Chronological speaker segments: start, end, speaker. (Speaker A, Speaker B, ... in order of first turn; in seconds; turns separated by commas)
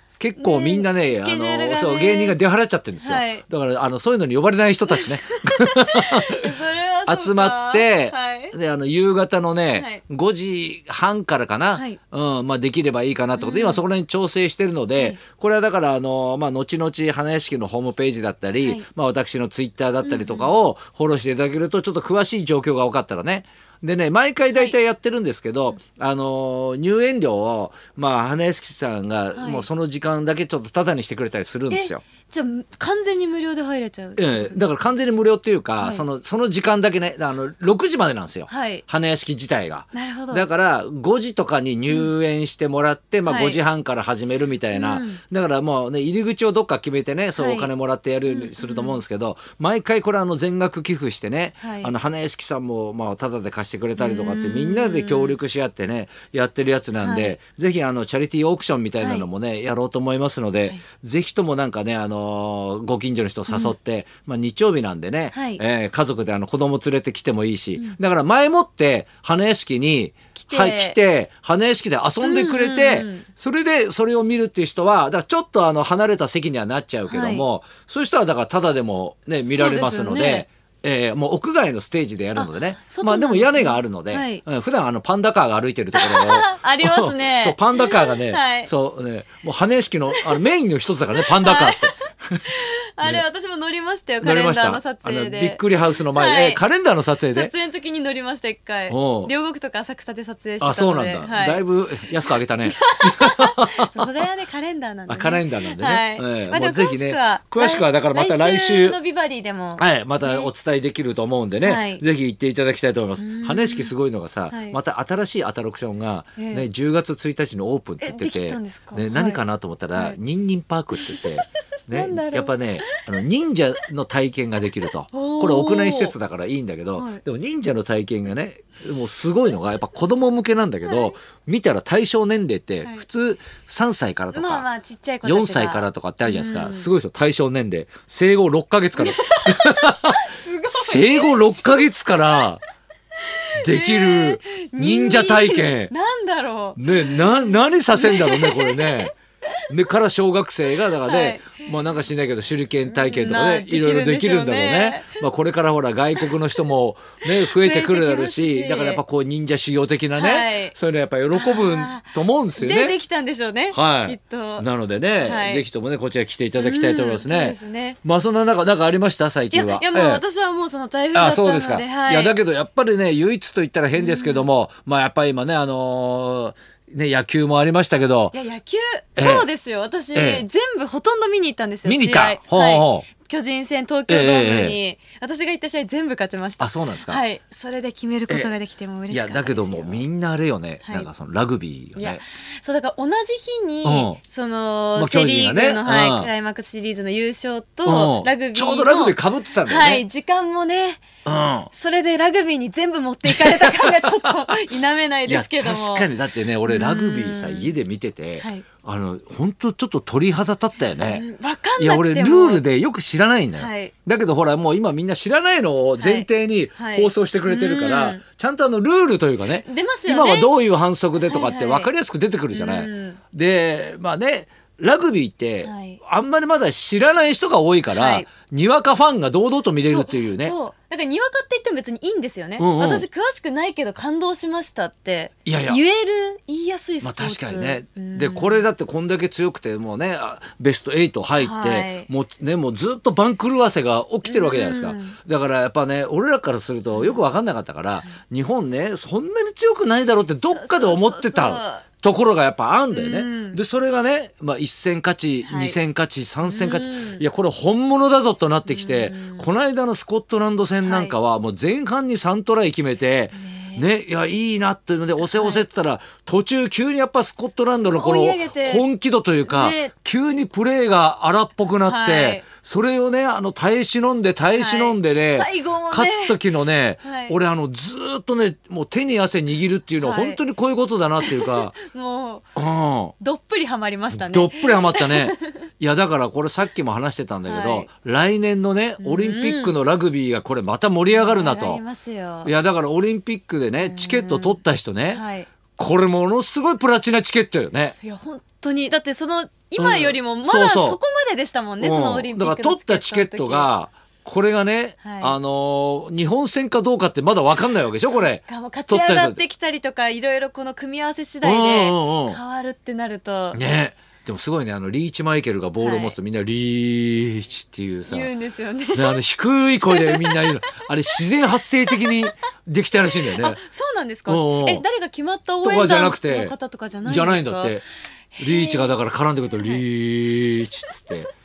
Speaker A: 0.2-6.4, Speaker B: 0.4-2.4, Speaker B: 3.0-3.5, Speaker B: 4.9-8.6, Speaker A: 7.1-32.0, Speaker B: 9.7-10.0, Speaker B: 13.4-13.8, Speaker B: 20.0-20.5, Speaker B: 29.3-29.6, Speaker B: 31.7-34.7, Speaker A: 34.2-92.4, Speaker B: 35.8-36.0, Speaker B: 38.5-38.8, Speaker B: 39.9-40.5, Speaker B: 43.3-43.6, Speaker B: 44.7-45.2, Speaker B: 47.4-47.7, Speaker B: 48.3-49.0, Speaker B: 51.6-51.9, Speaker B: 54.0-55.4, Speaker B: 57.0-57.4, Speaker B: 59.0-59.3, Speaker B: 63.5-63.8, Speaker B: 65.3-65.6, Speaker B: 70.4-71.0, Speaker B: 72.2-73.2, Speaker B: 77.1-77.5, Speaker B: 79.4-80.5, Speaker B: 82.4-84.4, Speaker B: 85.9-88.7, Speaker B: 91.4-91.9, Speaker B: 92.5-96.6, Speaker A: 94.2-97.5, Speaker B: 97.3-101.7, Speaker A: 98.9-99.3, Speaker A: 100.6-104.1, Speaker B: 102.7-110.5, Speaker A: 105.1-109.0, Speaker A: 109.8-134.7, Speaker B: 111.6-112.0, Speaker B: 113.2-113.9, Speaker B: 114.5-114.8, Speaker B: 116.4-116.7, Speaker B: 118.0-119.4, Speaker B: 121.0-121.3, Speaker B: 121.9-122.6, Speaker B: 125.1-126.2, Speaker B: 127.0-127.2, Speaker B: 134.3-136.9, Speaker A: 135.2-140.2, Speaker B: 139.0-141.9, Speaker A: 140.7-142.6, Speaker B: 143.2-149.5, Speaker A: 143.6-145.9, Speaker A: 146.8-149.1, Speaker A: 149.7-163.0, Speaker B: 151.1-151.7, Speaker B: 152.9-155.2, Speaker B: 157.4-159.0, Speaker B: 160.2-160.8, Speaker B: 161.3-164.7, Speaker A: 163.7-170.2, Speaker B: 165.2-165.6, Speaker B: 166.6-168.0, Speaker B: 169.5-172.3, Speaker A: 171.1-178.4, Speaker B: 173.9-174.5, Speaker B: 178.3-190.0, Speaker A: 179.2-179.5, Speaker A: 180.1-180.4, Speaker A: 181.8-183.1, Speaker A: 184.1-184.8, Speaker A: 186.6-187.2, Speaker A: 189.1-192.2, Speaker B: 192.0-201.0, Speaker A: 193.8-194.2, Speaker A: 194.9-196.3, Speaker A: 197.8-200.1, Speaker A: 201.2-201.7, Speaker B: 201.7-206.1, Speaker A: 203.3-204.5, Speaker A: 205.3-211.2, Speaker B: 206.7-207.7, Speaker B: 208.4-208.7, Speaker B: 211.0-212.7, Speaker A: 211.8-230.6, Speaker B: 213.6-213.9, Speaker B: 216.0-218.2, Speaker B: 219.6-220.5, Speaker B: 221.3-221.9, Speaker B: 222.5-223.2, Speaker B: 225.6-226.0, Speaker B: 227.9-228.3, Speaker B: 229.8-238.6, Speaker A: 232.6-233.1, Speaker A: 235.4-235.8, Speaker A: 237.0-281.7, Speaker B: 241.4-242.1, Speaker B: 244.2-245.2, Speaker B: 246.9-247.2, Speaker B: 250.5-251.9, Speaker B: 252.9-253.6, Speaker B: 255.4-255.8, Speaker B: 256.4-257.2, Speaker B: 258.7-259.5, Speaker B: 260.8-261.2, Speaker B: 263.4-263.8, Speaker B: 265.2-265.6, Speaker B: 267.9-268.8, Speaker B: 269.5-269.9, Speaker B: 271.8-272.4, Speaker B: 274.5-276.4, Speaker B: 277.0-277.4, Speaker B: 280.0-280.4, Speaker B: 281.2-282.5, Speaker A: 282.6-283.1, Speaker B: 283.2-285.6, Speaker A: 284.1-291.8, Speaker B: 287.4-287.9, Speaker B: 289.0-289.8, Speaker B: 291.1-292.5, Speaker A: 292.4-295.2, Speaker B: 293.8-294.6, Speaker B: 295.1-295.5, Speaker A: 295.8-298.0, Speaker B: 298.0-303.7, Speaker A: 299.8-301.0, Speaker A: 301.8-309.4, Speaker B: 305.0-305.4, Speaker B: 308.5-313.6, Speaker A: 311.4-312.4, Speaker A: 313.5-318.3, Speaker B: 315.8-316.2, Speaker B: 318.1-319.2, Speaker A: 318.9-323.6, Speaker B: 319.8-320.5, Speaker B: 323.2-327.8, Speaker A: 324.3-324.8, Speaker A: 325.6-326.5, Speaker A: 327.1-327.8, Speaker B: 328.3-328.9, Speaker A: 328.4-331.3